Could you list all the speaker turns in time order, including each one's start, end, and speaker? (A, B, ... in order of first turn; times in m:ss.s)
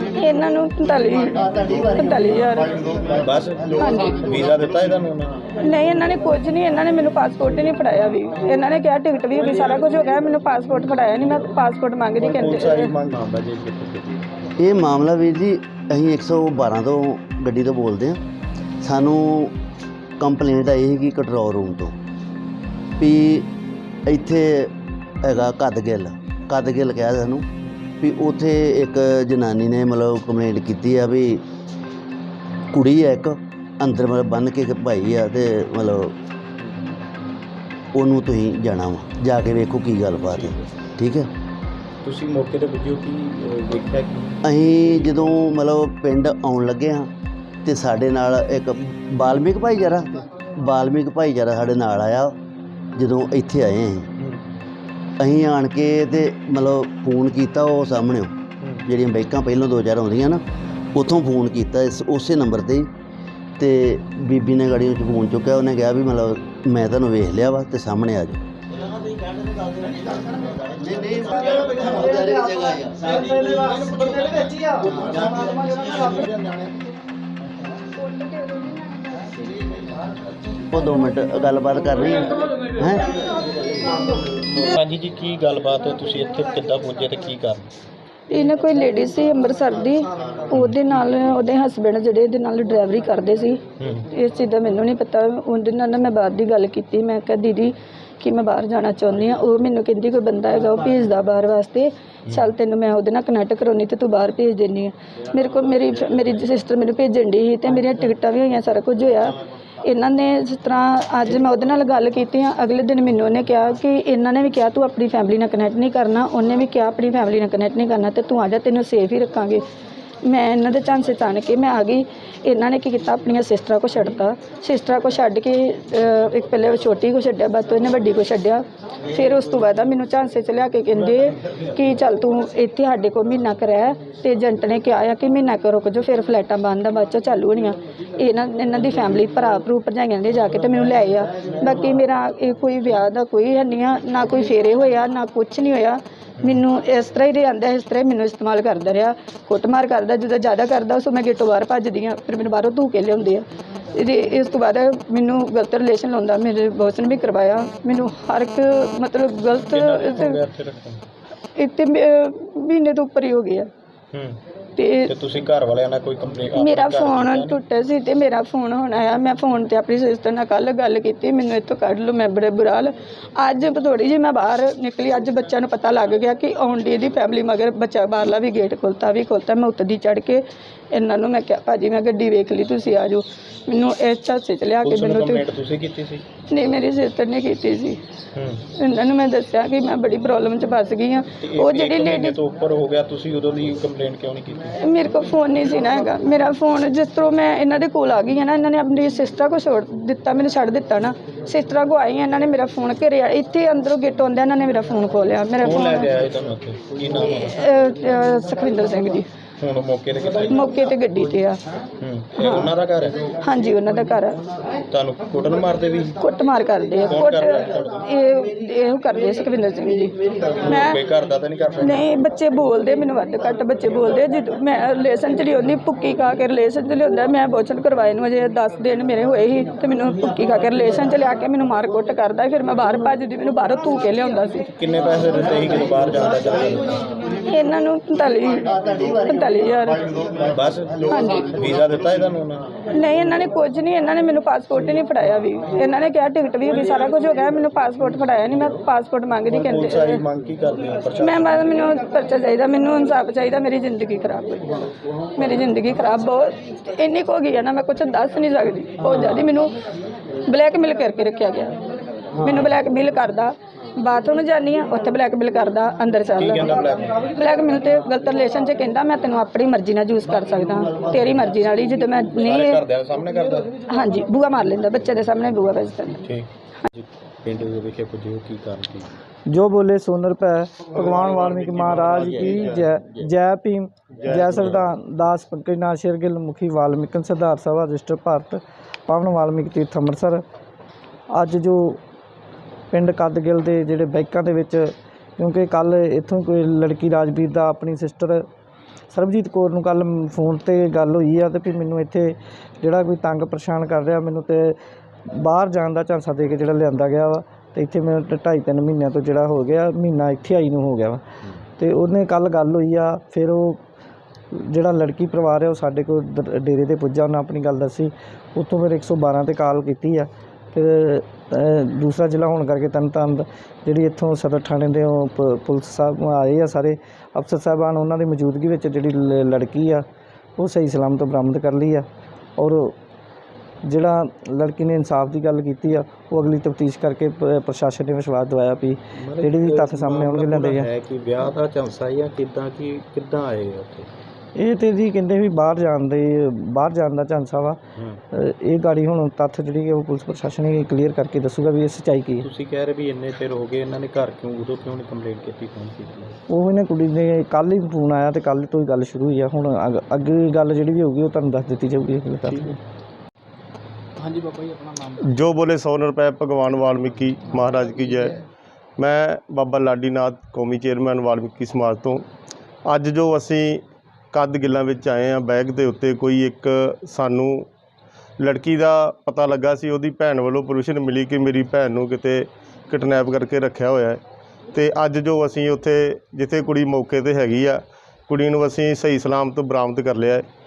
0:00.1-0:02.8 A
0:03.1-0:05.5 B
0:03.8-0:04.2 A
0:05.6-0:12.9 A
0:12.2-0:14.3 B
0:14.6-0:18.2 C
0:18.8-0:19.5 C
0:20.2-0:21.9 C
0:23.0-0:23.5 C
0:24.1-0:27.5 C
0:28.0-0:31.4 C
0:32.7-0:36.1 C
0:36.6-0:36.9 B
0:37.9-0:41.3 C
0:40.3-0:40.6 B
0:42.0-0:44.8 B
0:44.4-0:47.1 C
0:47.6-0:52.3 C
0:53.0-0:54.1 C
0:54.2-0:54.4 B
0:55.2-0:58.3 C
0:58.6-0:58.9 B
0:58.8-1:00.4 C
1:00.9-1:02.9 C
1:03.6-1:08.4 C
1:10.4-1:13.8 C
1:14.9-1:15.4 C
1:17.9-1:19.4 A
1:20.7-1:23.2 C
1:24.4-1:27.6 B
1:28.3-1:59.6 A
1:33.8-1:34.1 B
2:00.2-2:40.4 A
2:39.6-2:41.0 B
2:41.5-2:43.7 A
2:44.1-2:44.4 B
2:44.8-2:45.1 A
2:45.1-2:47.6 B
2:46.5-3:05.4 A
3:04.8-3:06.2 B
3:06.5-3:08.0 A
3:08.3-3:08.6 B
3:08.7-3:12.4 A
3:11.4-3:14.7 B
3:14.8-3:26.1 A
3:25.6-3:27.5 B
3:27.2-3:29.3 A
3:29.6-3:30.6 B
3:30.5-3:31.6 A
3:32.0-3:33.3 B
3:32.4-3:32.7 A
3:33.4-3:34.4 A
3:34.9-3:36.1 B
3:36.2-3:40.2 A
3:37.1-3:38.0 B
3:40.5-3:42.1 B
3:40.7-3:41.0 A
3:41.8-3:54.7 A
3:54.8-3:57.1 B
3:57.3-4:00.0 A
4:00.4-4:02.8 B
4:01.1-4:01.5 A
4:02.9-4:10.2 A
4:09.5-4:11.7 B
4:11.2-4:19.7 A
4:20.4-4:21.8 A
4:22.4-4:26.7 A
4:26.4-4:27.2 B
4:27.3-4:32.8 A
4:32.4-4:33.8 B
4:33.8-4:36.3 A
4:36.2-4:39.1 B
4:39.5-4:50.4 D
4:41.0-4:43.0 E
4:44.2-4:44.8 E
4:51.3-4:52.0 D
4:52.9-4:58.4 D
4:59.1-5:11.2 D
5:11.8-5:13.8 D
5:14.5-5:30.0 D
5:30.6-5:33.0 D
5:33.8-5:40.8 D
5:39.2-5:44.1 B
5:44.6-5:47.8 D
5:48.3-5:52.4 D
5:52.4-5:56.3 B
5:56.5-6:02.8 D
6:05.2-6:08.4 E
6:09.0-6:12.2 E
6:12.8-6:17.7 E
6:18.4-6:24.2 E
6:24.7-6:30.4 E